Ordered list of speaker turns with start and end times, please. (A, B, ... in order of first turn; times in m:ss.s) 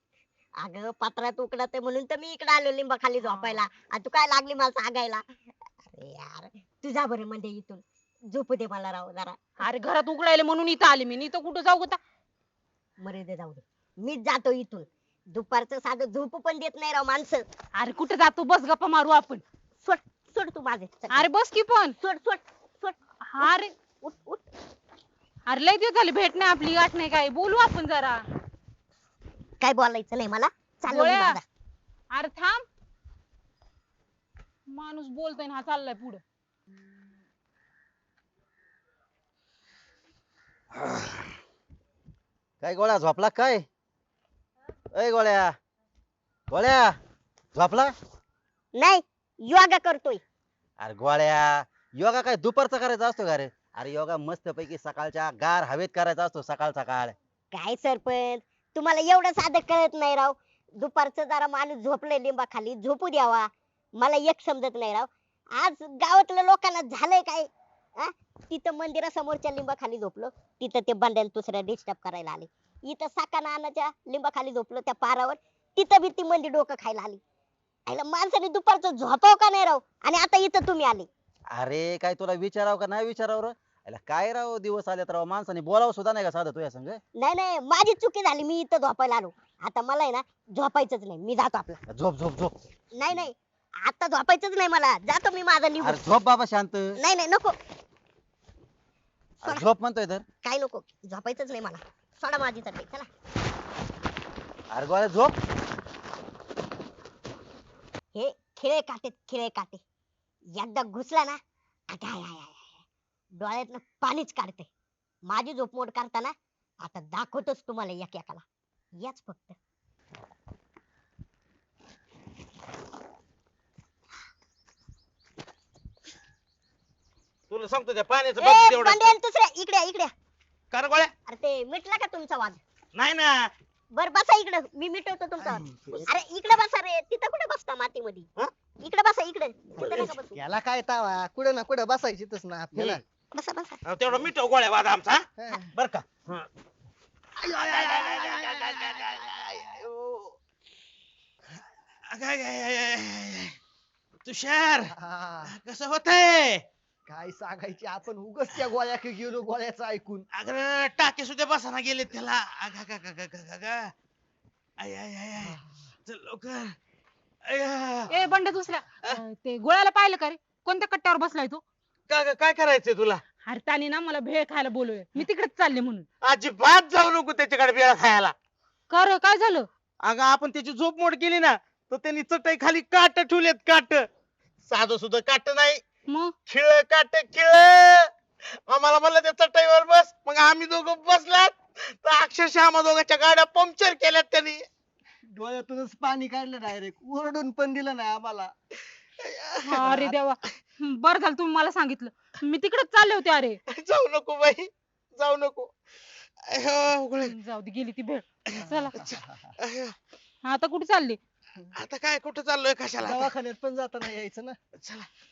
0:00.6-0:05.2 A
0:03.2-0:03.6 B
0:05.8-0:09.4 A
0:09.6-0:12.0 B
0:13.0-0:17.4 A
0:17.8-0:19.4 B
0:19.8-0:21.3 A
0:21.1-0:22.0 B
0:22.0-0:24.4 A
0:23.3-0:23.7 B
0:25.5-0:28.2 B
0:29.6-0:31.4 A
0:30.9-0:31.4 B
0:32.1-0:32.6 B
0:34.7-0:36.2 B
0:42.6-0:43.6 C
0:44.9-0:45.5 C
0:46.5-0:46.9 C
0:47.5-0:47.9 C
0:48.8-0:50.2 A
0:50.8-0:57.1 C
0:57.5-1:07.5 A
1:08.0-1:17.2 A
1:17.9-1:21.1 A
1:21.5-1:27.0 C
1:27.2-1:31.8 A
1:31.9-1:32.5 C
1:32.9-1:36.0 A
1:35.8-1:37.0 C
1:37.0-1:37.6 A
1:39.4-1:40.2 C
1:40.4-1:43.1 A
1:44.7-1:45.3 C
1:48.1-1:49.8 A
1:50.5-1:51.4 A
1:51.9-1:52.8 A
1:53.4-1:54.7 A
1:55.3-1:58.4 A
1:59.0-1:59.6 A
2:07.5-2:09.1 D
2:08.4-2:10.1 A
2:10.7-2:11.1 D
2:11.3-2:12.6 A
2:12.9-2:13.5 D
2:13.9-2:18.3 A
2:15.4-2:16.1 E
2:18.8-2:20.4 A
2:20.3-2:23.0 E
2:23.3-2:23.8 A
2:23.8-2:26.5 D
2:25.4-2:25.7 E
2:27.4-2:29.7 D
2:27.4-2:30.3 E
2:32.1-2:33.6 D
2:34.2-2:34.9 D
2:34.9-2:35.5 E
2:35.4-2:36.6 D
2:37.1-2:40.2 E
2:40.3-2:43.9 D
2:44.8-2:46.7 D
2:47.5-2:48.2 D
2:48.1-2:51.6 B
2:52.1-2:53.2 D
2:53.4-2:56.0 B
2:56.2-2:58.3 D
2:58.9-2:59.7 B
3:00.0-3:04.0 D
3:04.7-3:05.8 D
3:06.1-3:06.3 B
3:06.5-3:08.1 D
3:08.7-3:14.6 D
3:15.3-3:18.5 E
3:19.2-3:19.8 D
3:19.7-3:23.6 B
3:23.7-3:25.7 D
3:26.5-3:27.3 D
3:27.2-3:29.1 B
3:28.5-3:29.9 D
3:30.4-3:31.2 B
3:31.7-3:33.3 D
3:33.0-3:34.6 E
3:34.8-3:35.1 D